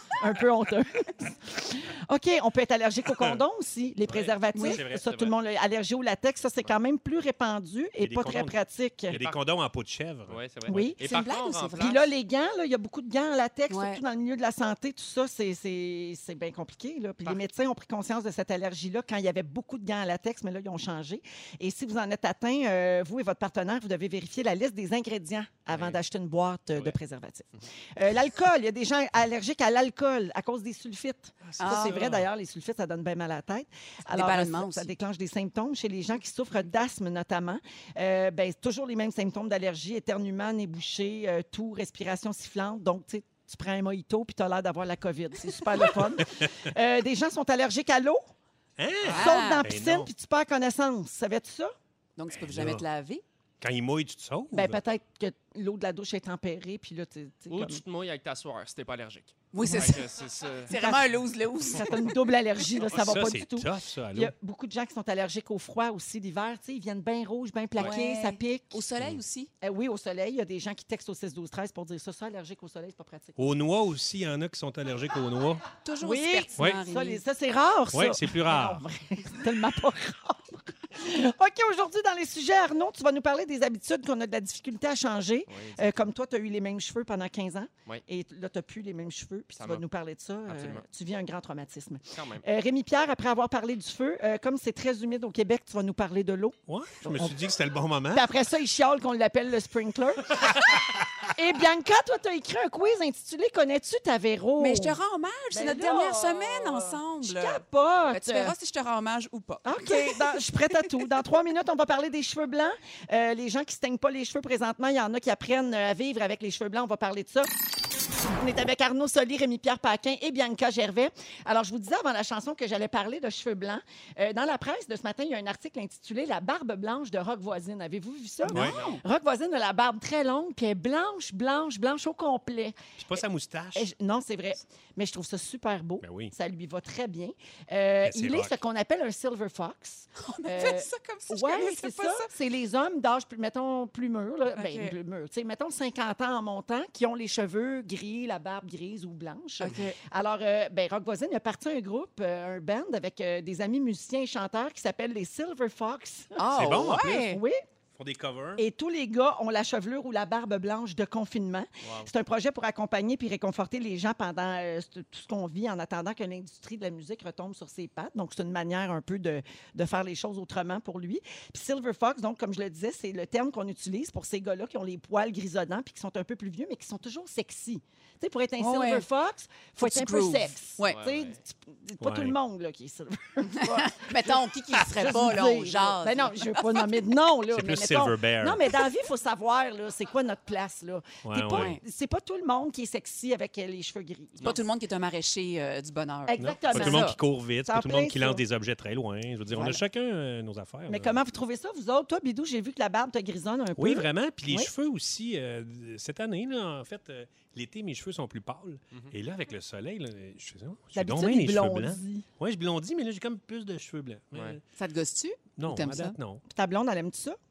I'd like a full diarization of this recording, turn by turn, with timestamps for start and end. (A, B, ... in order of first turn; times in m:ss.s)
0:00.2-0:09.2 A
0:03.1-0:03.4 B
0:04.1-0:04.3 C
0:04.5-0:04.8 D
0:04.6-0:05.4 B
0:08.0-0:08.6 B
0:09.1-0:10.4 B
0:09.1-0:09.4 C
0:10.3-0:12.1 C
0:10.7-0:11.0 A
0:11.0-0:11.9 D
0:11.8-0:48.2 A
0:13.7-0:14.0 D
0:25.7-0:26.0 C
0:31.4-0:32.3 B
0:31.6-0:32.0 D
0:34.1-0:34.9 D
0:45.8-0:46.5 B
0:48.8-0:50.1 B
0:49.1-0:51.7 A
0:49.1-0:49.6 D
0:52.2-0:53.2 D
0:52.3-0:52.8 B
0:53.6-0:54.8 B
0:54.5-0:57.8 A
0:57.5-1:00.7 C
0:59.5-1:00.1 D
1:00.7-1:01.9 D
1:00.7-1:01.1 A
1:01.7-1:08.8 A
1:02.9-1:04.3 B
1:07.8-1:09.5 D
1:09.6-1:13.5 A
1:13.4-1:15.6 B
1:15.8-1:17.2 D
1:16.0-1:37.4 A
1:17.9-1:18.8 B
1:25.5-1:26.1 C
1:29.6-1:29.8 C
1:30.4-1:30.8 C
1:32.1-1:32.4 C
1:36.7-1:38.3 B
1:38.1-1:45.0 A
1:44.6-1:50.8 D
1:45.5-1:48.5 A
1:49.6-1:57.5 A
1:58.3-2:13.2 A
2:08.5-2:09.0 D
2:08.5-2:08.8 B
2:13.0-2:13.9 B
2:13.7-2:37.6 A
2:16.0-2:16.3 B
2:18.0-2:18.6 B
2:20.2-2:22.3 D
2:24.5-2:24.9 D
2:29.6-2:30.0 D
2:36.4-2:37.4 D
2:36.5-2:37.2 B
2:37.9-2:38.6 B
2:38.6-3:14.5 A
2:41.8-2:42.1 C
2:58.6-2:59.0 D
2:59.8-3:01.0 D
3:00.8-3:01.4 C
3:02.0-3:02.4 B
3:03.5-3:07.0 D
3:07.5-3:08.7 B
3:11.2-3:11.8 B
3:11.5-3:11.8 D
3:14.4-3:17.2 D
3:16.3-3:18.4 A
3:16.3-3:21.2 B
3:20.9-3:24.7 A
3:23.7-3:34.6 B
3:30.9-3:32.2 A
3:34.3-3:34.6 C
3:34.8-3:36.2 D
3:35.6-3:36.4 B
3:36.5-3:37.4 A